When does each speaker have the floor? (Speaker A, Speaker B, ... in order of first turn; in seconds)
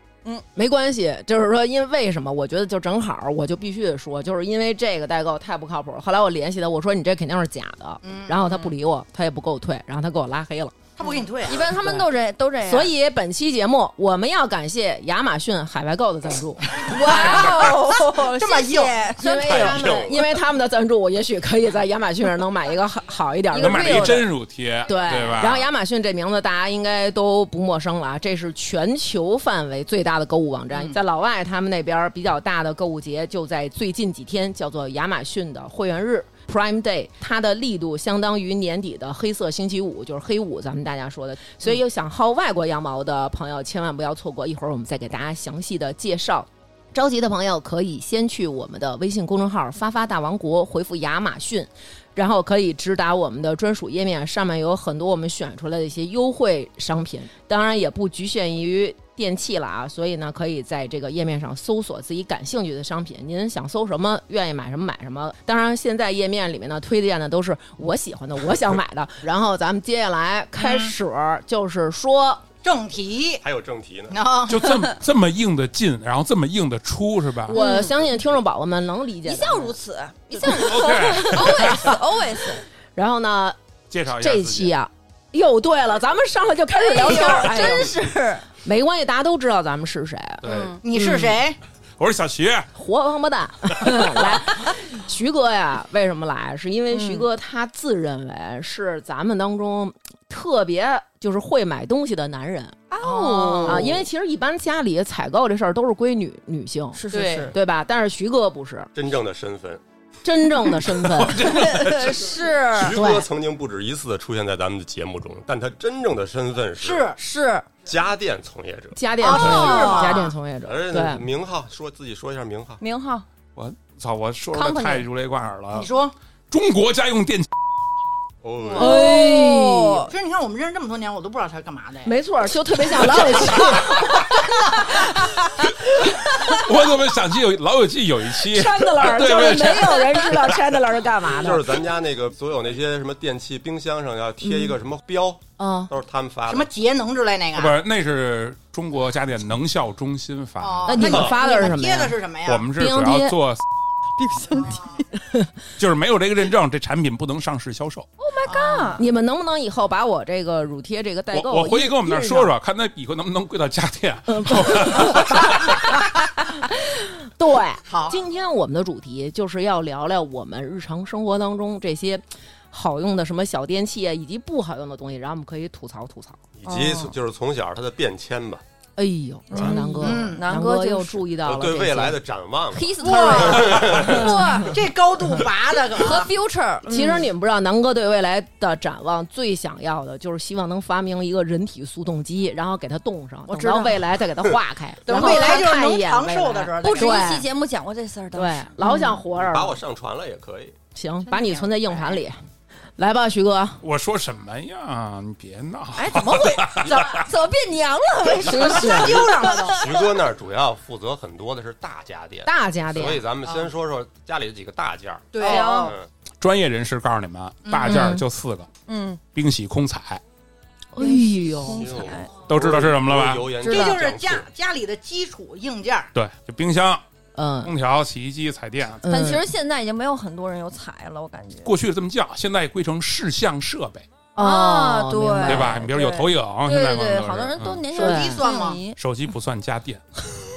Speaker A: 0.6-10.8, 11.8-12.1, 12.6-17.6, 19.2-24.2, 24.9-72.4, 77.5-79.8, 80.3-81.9, 83.0-83.6, 84.1-87.9, 88.6-91.4, 92.8-102.8, 103.7-107.0, 107.5-108.9, 110.2-111.5, 112.8-113.2, 119.0-121.2, 128.8-130.1, 132.1-134.4, 138.5-141.6, 144.4-144.7, 145.6-145.9, 150.9-152.2, 152.8-153.4, 159.0-162.5, 164.3-165.7, 166.6-176.4, 179.0-182.2, 184.2-184.7, 186.9-197.4, 198.3-199.8, 200.9-202.4, 203.0-203.8, 208.5-209.2, 212.4-213.2, 215.5-215.9, 217.8-218.2, 220.9-221.9, 227.3-227.7, 229.0-229.4, 234.4-235.8, 237.9-238.4
Speaker B: 8.0-8.7, 11.0-11.7, 16.7-17.3, 18.3-19.0, 70.6-70.9, 72.6-73.4, 74.1-74.9, 90.8-91.6, 103.0-104.0, 107.1-107.5, 116.8-117.2, 119.2-120.3, 125.7-126.2, 130.1-132.1, 146.5-147.8, 150.6-152.7, 158.4-159.0, 167.9-168.2, 180.0-180.4, 183.0-186.3, 193.5-194.1, 195.1-197.4, 201.3-202.2, 208.4-209.8, 215.3-215.9, 217.7-218.1, 223.7-226.1, 237.9-238.8
Speaker C: 11.0-12.9, 16.9-20.2, 23.5-24.3, 77.5-78.0, 79.2-82.6, 86.8-88.5, 90.4-90.8, 96.9-97.3, 102.9-104.0, 107.0-107.6, 111.3-113.0, 117.2-117.7, 119.3-120.3, 122.8-123.3, 124.5-125.0, 128.7-130.1, 154.2-154.8, 158.2-159.0, 176.7-177.1, 179.5-181.3, 182.7-184.8, 185.7-187.3, 195.1-195.7, 196.8-199.1, 206.0-209.9, 215.4-215.9, 218.9-219.2, 221.0-222.3, 223.6-224.1, 229.1-231.7, 234.4-239.0
Speaker D: 17.4-17.7, 19.5-20.1, 23.6-25.7, 74.5-77.6, 80.5-82.0, 83.9-84.7, 90.4-90.8, 92.0-92.7, 94.0-94.4, 111.1-112.3, 123.6-125.9, 126.5-127.5, 136.5-140.6, 147.5-151.2, 152.5-153.6, 155.8-158.1, 161.3-165.9, 203.8-207.3, 216.4-218.7, 219.3-220.2, 222.5-223.5, 226.1-227.0, 227.6-229.1, 231.6-234.1, 235.4-237.9, 238.9-240.0
Speaker E: 19.6-20.1, 73.4-74.2, 108.9-109.8, 112.8-117.1, 117.9-119.0, 120.6-122.8, 128.4-129.0, 141.4-146.7, 176.6-178.6, 181.4-184.4, 199.3-200.8, 208.9-216.1, 221.7-224.5